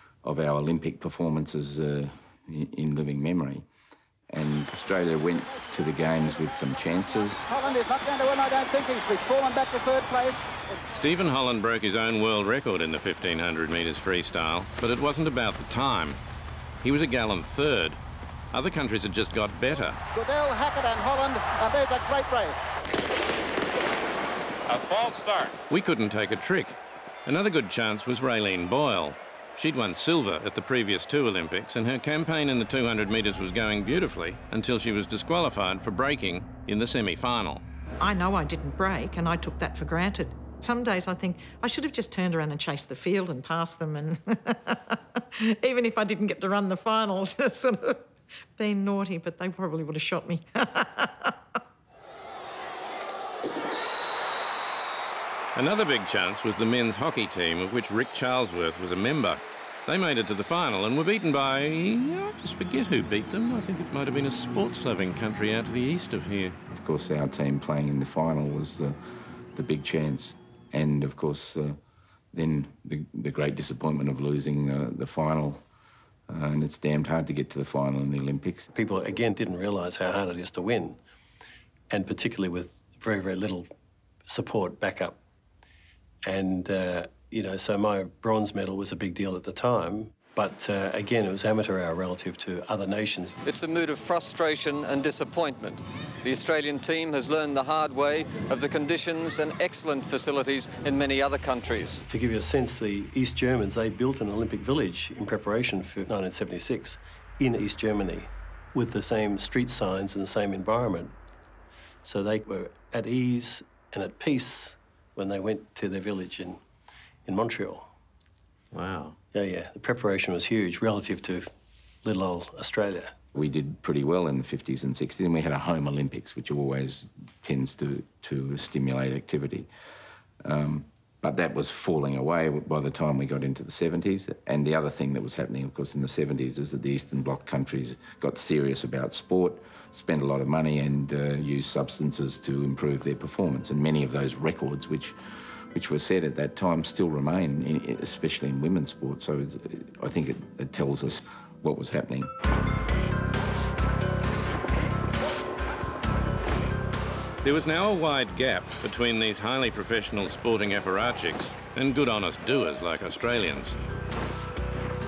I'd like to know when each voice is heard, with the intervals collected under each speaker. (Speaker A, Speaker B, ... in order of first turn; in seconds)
Speaker A: 0.2-3.6, 4.3-7.5, 66.7-69.0, 69.5-71.8, 72.3-75.6, 76.3-78.7, 123.3-129.7, 130.4-145.2, 145.7-152.3
Speaker B: 7.5-10.4, 20.1-22.6, 24.7-25.6
Speaker C: 10.9-16.2, 16.8-18.0, 18.5-20.0, 25.7-37.6, 55.5-66.6, 118.7-119.2, 157.4-163.8
Speaker D: 38.0-45.0, 45.6-51.3
Speaker E: 78.7-81.0, 81.9-83.7, 84.3-85.2, 86.2-93.4, 102.1-111.1, 112.0-116.6, 117.2-117.9, 119.3-121.5, 122.0-123.2
Speaker F: 93.4-102.0